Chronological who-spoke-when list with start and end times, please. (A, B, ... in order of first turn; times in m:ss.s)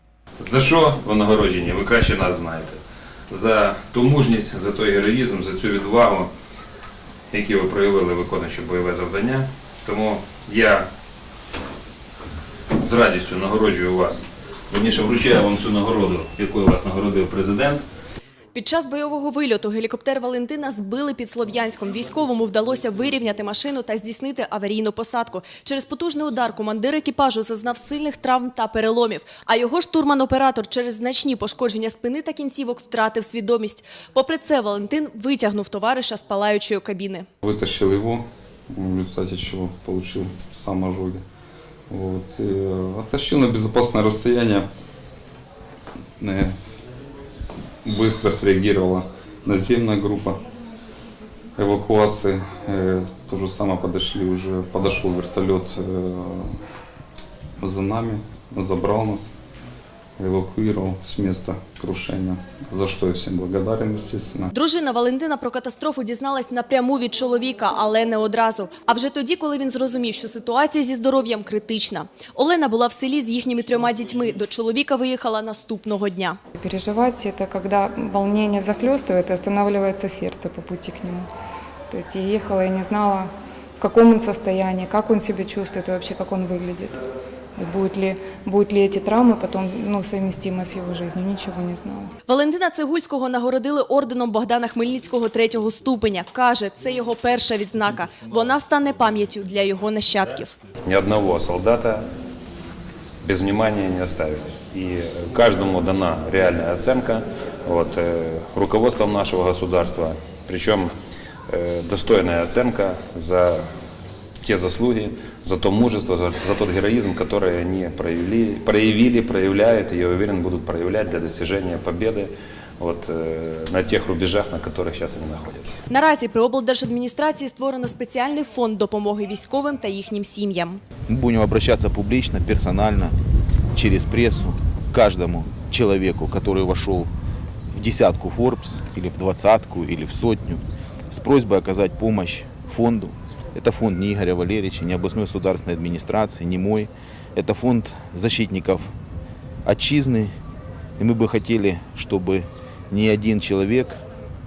0:00.4-0:06.3 A
0:07.3-0:10.9 A
0:12.8-0:17.8 A
0:18.6-0:37.3 B
0:37.4-0:41.2 C
0:41.9-0:44.7 C
0:46.2-0:46.6 C
0:47.8-0:50.4 C
0:51.6-0:56.6 C
0:57.6-0:59.4 C
1:00.2-1:04.5 C
1:04.5-1:16.4 B
1:16.6-1:21.3 D
1:21.9-1:27.0 D
1:27.6-1:32.1 D
1:32.3-1:40.6 B
1:40.8-1:42.1 A
1:43.2-1:50.9 A
1:51.5-1:53.7 A
1:54.4-2:05.8 A
2:05.9-2:10.8 B
2:11.1-2:13.2 E
2:13.7-2:17.1 E
2:17.7-2:28.9 E
2:29.6-2:30.3 E
2:31.0-2:34.0 E